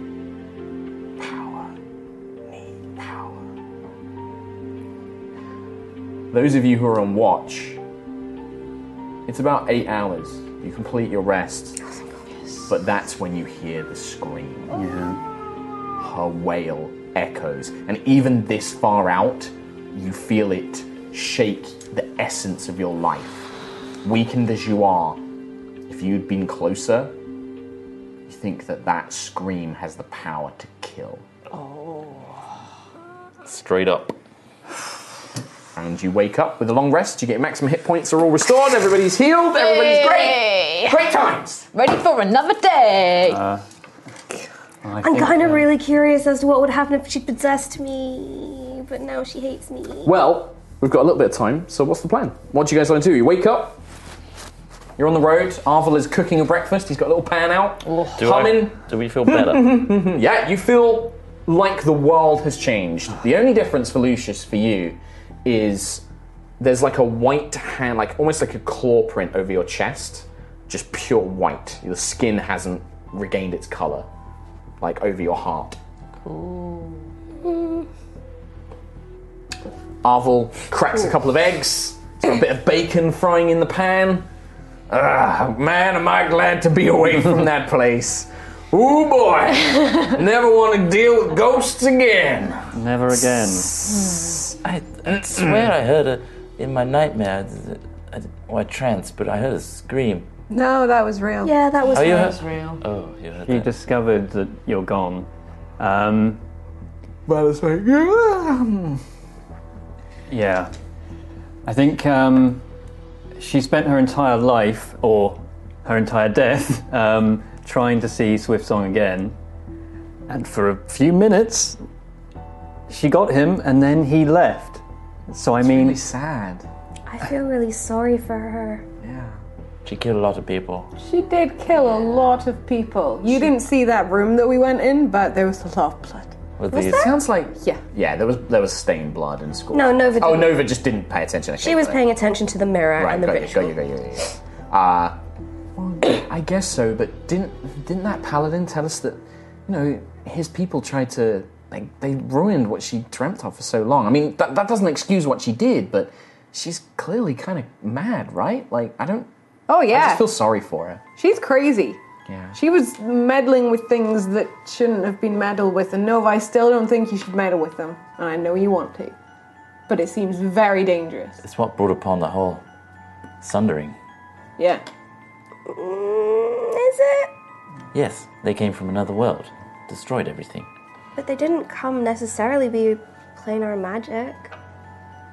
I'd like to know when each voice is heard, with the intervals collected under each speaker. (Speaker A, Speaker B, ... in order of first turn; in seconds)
Speaker A: 1.2-1.7, 2.5-3.4, 6.3-7.8, 9.3-11.8, 12.7-14.8, 16.0-23.5, 24.0-25.2, 25.9-27.1, 28.3-31.2, 35.8-41.6, 50.1-53.8, 55.0-58.7, 59.8-66.0, 66.6-74.1, 74.8-75.8, 80.0-84.3, 84.9-92.7, 107.3-109.0, 125.6-126.7, 129.0-129.4, 136.9-142.0, 143.0-145.2, 145.8-159.3, 159.9-161.0, 162.3-162.6
Speaker B: 14.7-15.2, 43.2-43.6, 44.8-45.7, 92.7-93.8, 103.4-106.4, 110.3-110.7, 111.7-112.7, 113.4-119.3, 120.3-121.8, 122.9-126.0
Speaker C: 31.5-32.3, 39.6-41.0, 41.7-43.4, 76.2-77.0, 93.9-94.2, 101.8-102.8
Speaker D: 33.5-34.2, 58.1-59.8, 94.6-100.3, 101.9-103.7, 129.8-130.9, 136.6-137.1, 171.4-172.6, 173.4-174.0, 177.9-180.7
Speaker E: 45.0-50.1, 77.5-77.8, 101.4-102.3, 127.1-128.8, 136.7-137.0, 139.7-140.7, 141.6-143.8, 175.7-177.3, 181.2-184.5
Speaker F: 100.5-101.6, 131.0-136.4, 159.7-160.2, 161.2-162.0, 162.5-169.2, 169.9-171.4, 174.6-174.8